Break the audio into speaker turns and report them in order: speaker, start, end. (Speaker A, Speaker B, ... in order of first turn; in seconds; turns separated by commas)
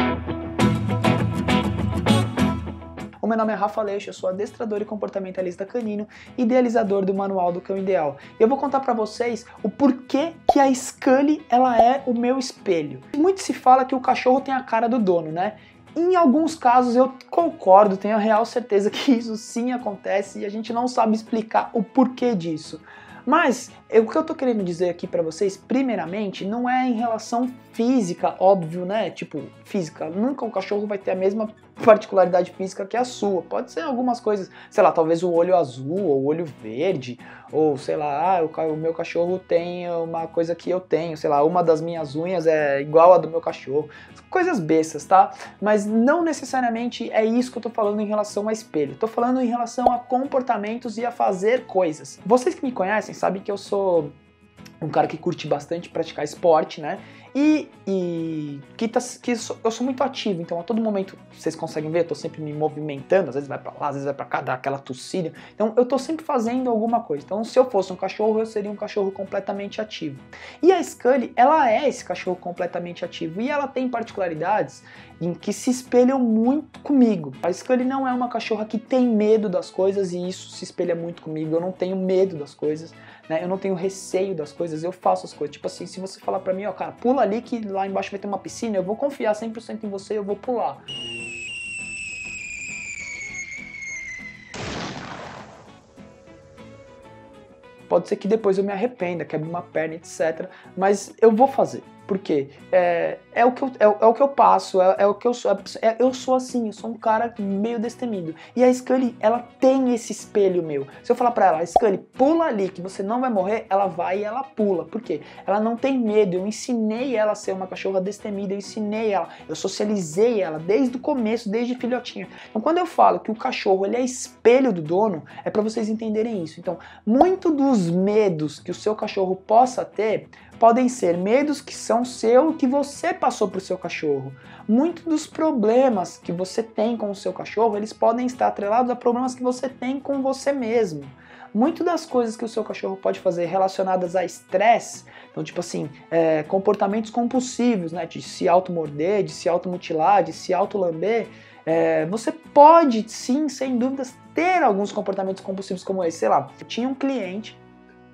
Speaker A: 3.2-54.1, Speaker A: 54.8-90.8, Speaker A: 97.9-157.6